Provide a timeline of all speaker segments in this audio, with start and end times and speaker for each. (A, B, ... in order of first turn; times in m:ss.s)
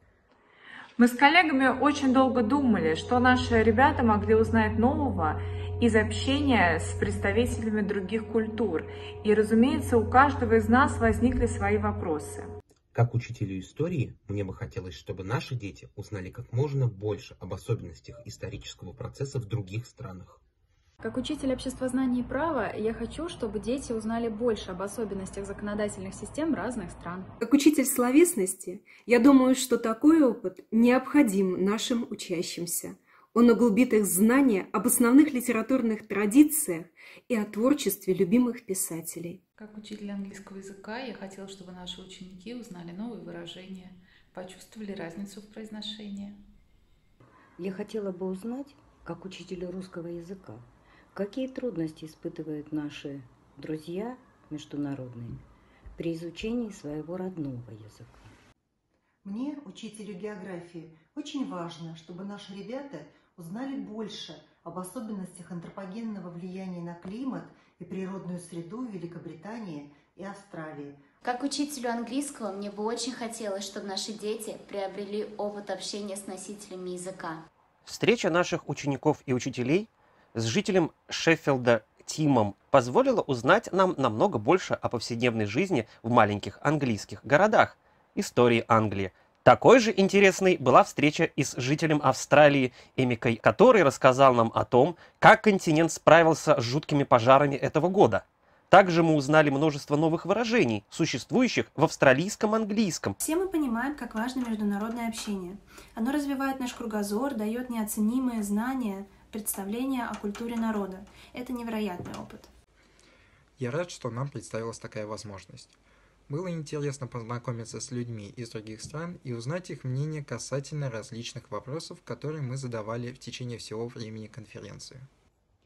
0:01.0-0:12.5 A
0:12.9-0:20.4 B
0:21.0-0:27.3 C
0:27.5-0:39.4 D
0:39.6-0:46.4 E
0:47.6-0:55.4 F
0:56.0-0:58.3 F
0:59.2-1:11.0 G
1:11.2-1:17.4 H
1:17.8-1:43.2 I
1:43.2-1:52.5 J
1:53.6-1:55.7 K
1:56.3-2:05.1 K